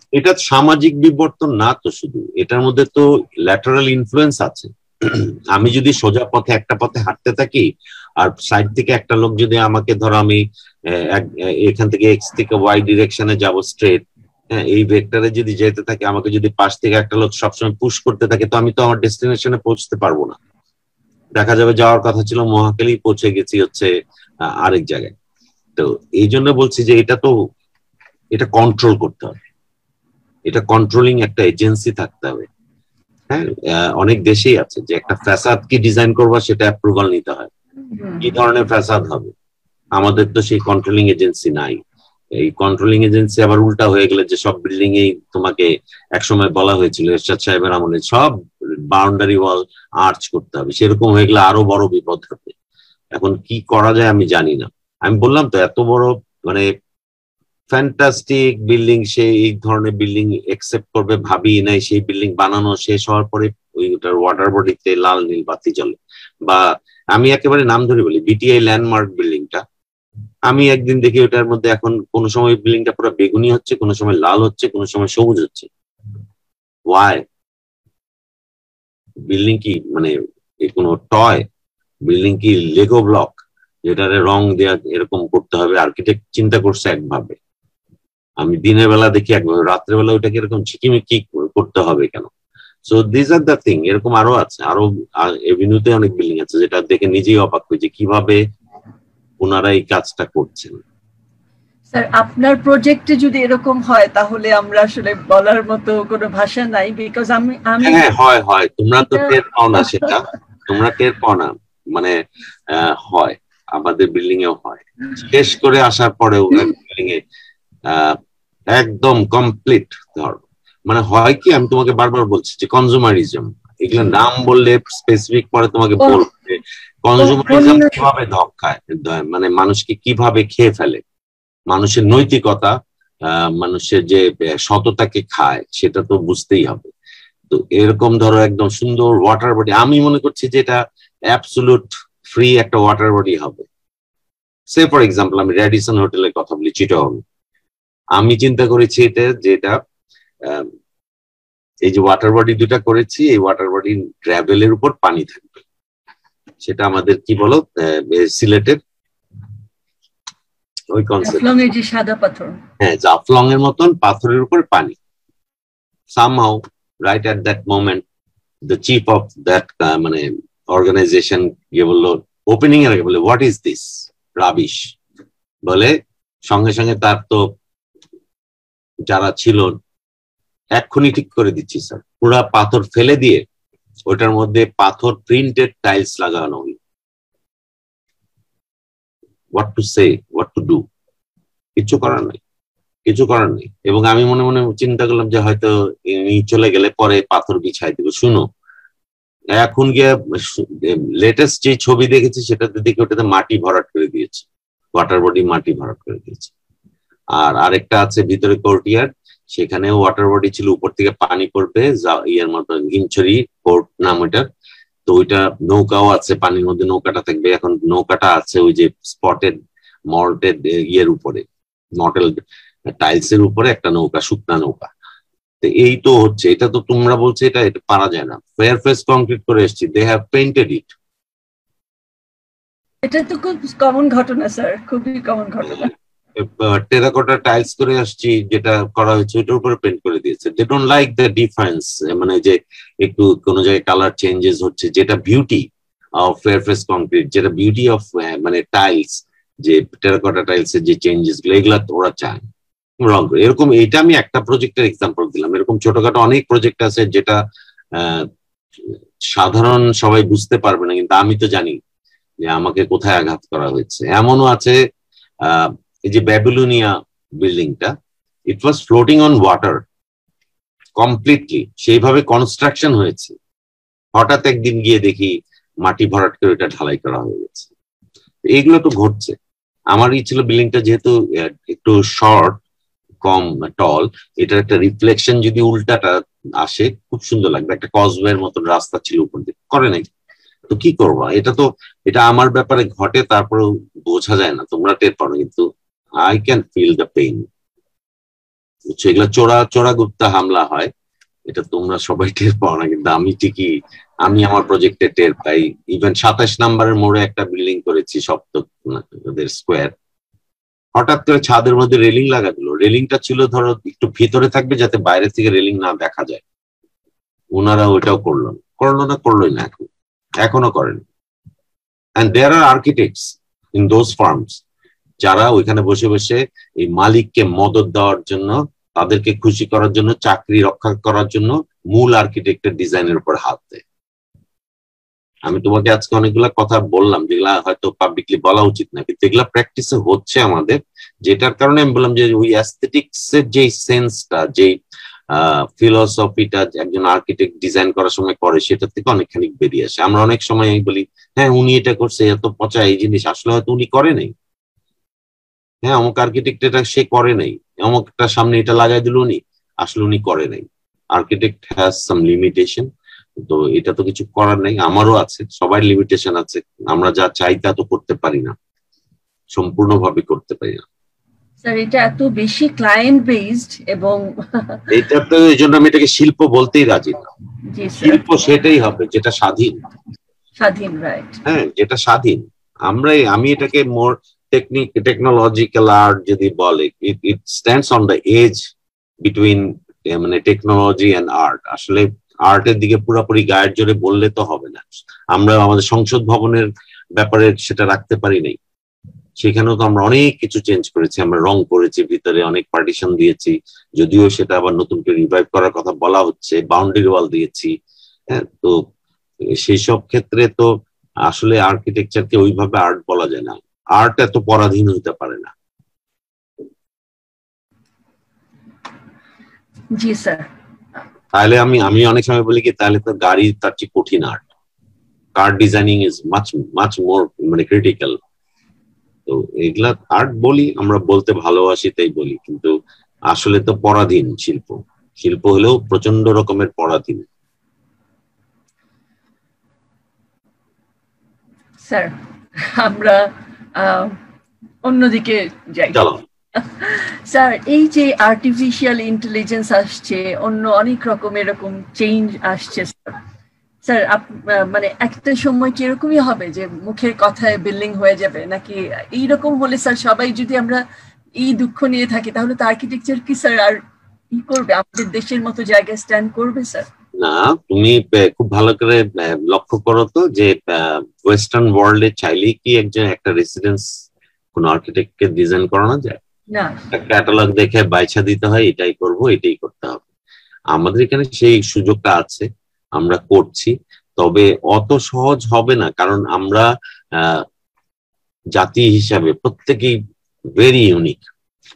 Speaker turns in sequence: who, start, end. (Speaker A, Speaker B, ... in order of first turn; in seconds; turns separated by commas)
Speaker A: 0.1-7.7, Speaker A: 8.2-20.4, Speaker A: 21.3-23.9, Speaker A: 24.5-25.1, Speaker A: 25.8-27.3, Speaker A: 28.3-29.4, Speaker A: 30.5-32.5, Speaker A: 33.3-37.5, Speaker B: 37.9-38.4, Speaker A: 38.2-39.3, Speaker A: 39.9-41.8, Speaker A: 42.3-48.3, Speaker A: 48.9-52.5, Speaker A: 53.1-56.7, Speaker A: 57.7-69.6, Speaker A: 70.5-75.7, Speaker A: 76.9-77.2, Speaker A: 79.3-80.1, Speaker A: 80.6-81.5, Speaker A: 82.1-87.4, Speaker A: 88.4-92.3, Speaker A: 92.9-98.4, Speaker A: 99.4-100.8, Speaker B: 101.9-108.0, Speaker A: 107.8-112.2, Speaker B: 109.0-110.1, Speaker A: 112.7-117.2, Speaker A: 117.9-118.2, Speaker A: 118.7-131.0, Speaker B: 127.2-128.1, Speaker A: 131.7-132.7, Speaker A: 133.2-136.9, Speaker A: 137.5-143.7, Speaker A: 144.7-147.2, Speaker A: 148.2-149.8, Speaker A: 150.4-150.7, Speaker A: 151.8-155.5, Speaker A: 156.6-158.8, Speaker A: 160.9-161.5, Speaker B: 161.2-162.6, Speaker A: 162.8-164.9, Speaker A: 166.1-168.0, Speaker A: 168.7-174.9, Speaker A: 175.7-175.9, Speaker A: 176.5-177.4, Speaker A: 179.1-179.7, Speaker A: 180.8-183.4, Speaker A: 184.1-186.8, Speaker A: 189.5-190.8, Speaker A: 191.8-192.4, Speaker A: 193.1-198.4, Speaker A: 199.6-206.5, Speaker A: 207.3-214.5, Speaker A: 215.1-219.6, Speaker A: 220.1-221.4, Speaker A: 222.0-222.3, Speaker A: 222.9-224.9, Speaker A: 225.6-230.9, Speaker B: 233.0-235.9, Speaker A: 235.7-252.5, Speaker A: 253.0-257.4, Speaker A: 257.9-258.3, Speaker A: 258.8-261.8, Speaker A: 262.4-264.8, Speaker A: 265.4-267.9, Speaker A: 268.5-269.8, Speaker A: 271.0-273.4, Speaker A: 274.1-277.7, Speaker A: 278.4-279.4, Speaker A: 279.9-282.6, Speaker A: 283.2-290.1, Speaker A: 290.7-295.7, Speaker A: 296.2-297.5, Speaker A: 298.9-300.9, Speaker A: 301.5-309.9, Speaker A: 310.9-316.4, Speaker A: 317.5-319.9, Speaker A: 320.4-321.0, Speaker A: 322.2-324.6, Speaker A: 325.2-333.8, Speaker A: 335.5-344.8, Speaker A: 345.3-354.3, Speaker A: 355.8-368.5, Speaker A: 369.5-370.8, Speaker B: 371.6-374.9, Speaker A: 374.9-377.3, Speaker B: 377.7-378.2, Speaker A: 378.0-379.8, Speaker B: 380.6-381.4, Speaker A: 381.4-388.6, Speaker A: 389.2-398.6, Speaker A: 399.4-407.7, Speaker A: 408.3-408.8, Speaker A: 409.5-410.7, Speaker A: 411.3-415.5, Speaker B: 419.9-420.5, Speaker A: 421.3-424.4, Speaker A: 425.4-428.2, Speaker A: 429.3-432.7, Speaker A: 433.3-437.2, Speaker B: 441.8-443.2, Speaker B: 443.8-444.2, Speaker B: 444.8-446.0, Speaker A: 445.9-446.2, Speaker B: 446.5-453.1, Speaker B: 453.8-460.8, Speaker B: 461.4-463.8, Speaker B: 464.3-466.9, Speaker A: 467.2-473.9, Speaker A: 474.5-476.2, Speaker B: 476.5-476.8, Speaker A: 476.9-480.0, Speaker A: 480.7-487.4, Speaker A: 488.5-490.0, Speaker A: 490.6-491.3